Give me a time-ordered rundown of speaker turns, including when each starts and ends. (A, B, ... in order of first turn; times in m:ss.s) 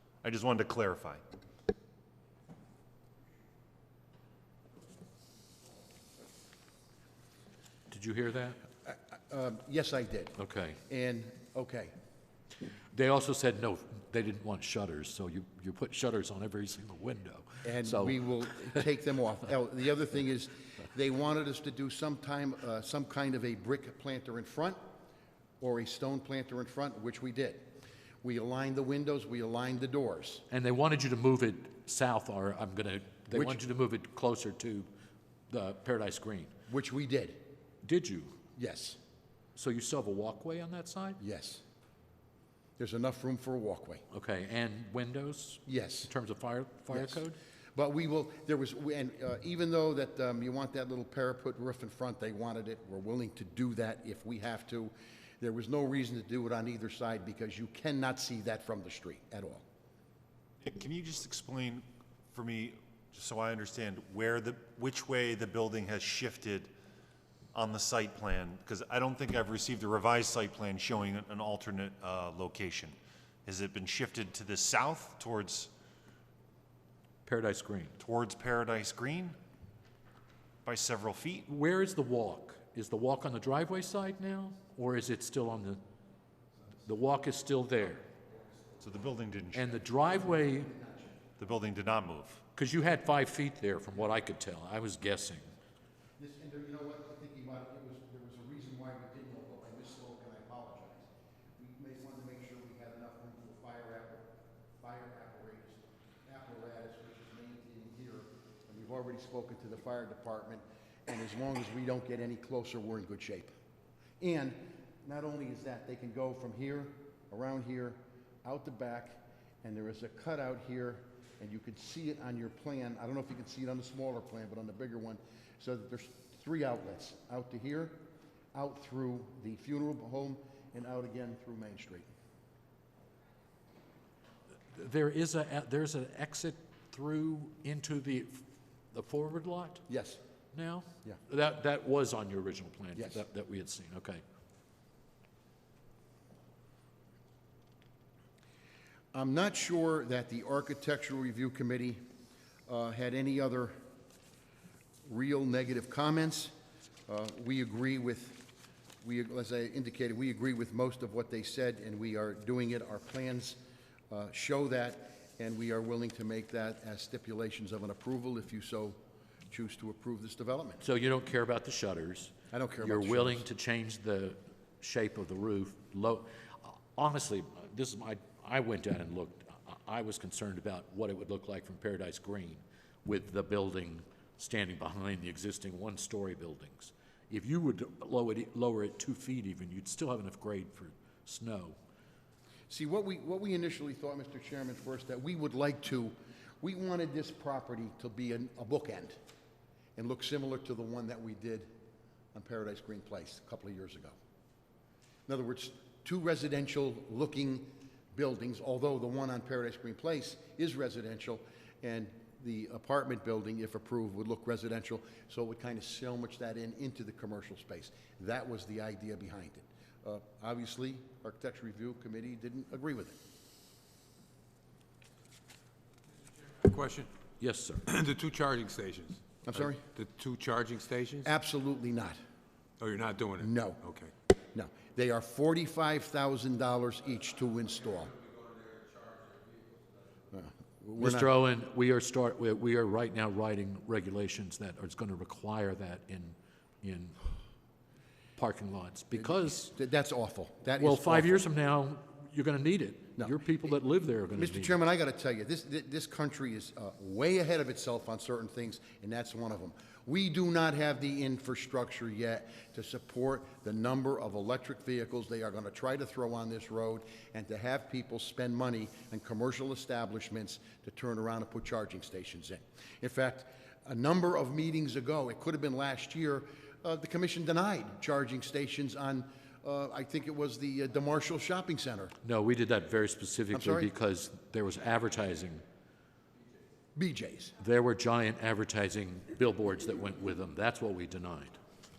0:00.2-0:01.2 A
0:07.9-0:08.6 B
0:08.9-0:11.9 C
0:10.4-0:10.8 B
0:12.9-0:18.9 B
0:17.6-0:24.8 C
0:25.6-0:27.7 C
0:28.2-0:30.4 C
0:30.5-0:34.9 B
0:33.3-0:33.6 C
0:35.5-0:36.5 B
0:36.7-0:37.4 C
0:37.8-0:38.4 B
0:38.6-0:39.0 C
0:39.6-0:41.2 B
0:41.2-0:41.6 C
0:42.8-0:44.0 C
0:44.1-0:47.4 B
0:45.7-0:46.1 C
0:46.9-0:59.6 C
1:00.6-1:06.7 A
1:07.5-1:15.7 A
1:17.2-1:18.0 B
1:18.0-1:19.4 A
1:20.6-1:21.5 A
1:21.5-1:25.8 B
1:26.8-1:28.1 B
1:28.8-1:29.8 A
1:29.5-1:30.7 B
1:30.0-1:31.2 C
1:31.4-1:32.4 A
1:32.6-1:35.4 B
1:36.2-1:53.5 C
1:54.2-2:08.0 C
2:08.5-2:12.1 C
2:14.7-2:19.8 B
2:19.9-2:20.2 C
2:20.5-2:24.2 B
2:23.0-2:23.2 C
2:29.1-2:32.0 C
2:32.7-2:33.8 C
2:35.0-2:36.5 C
2:37.1-2:49.0 C
2:49.5-2:50.8 C
2:50.8-3:11.8 B
2:52.5-2:53.4 C
3:12.7-3:19.2 C
3:20.0-3:21.7 C
3:22.3-3:24.2 C
3:25.3-3:43.2 C
3:46.6-3:47.1 D
3:47.4-3:47.8 B
3:47.9-3:51.3 D
3:49.5-3:49.8 C
3:51.2-3:52.2 C
3:52.8-3:54.1 D
3:53.4-3:53.8 C
3:54.5-3:58.1 C
3:58.2-4:00.0 D
4:00.3-4:01.3 C
4:01.0-4:07.2 B
4:08.4-4:09.7 B
4:09.1-4:11.4 C
4:10.8-4:14.8 B
4:14.4-4:42.1 C
4:42.2-4:45.6 B
4:43.5-4:43.9 C
4:47.0-4:47.5 C
4:47.6-4:51.6 B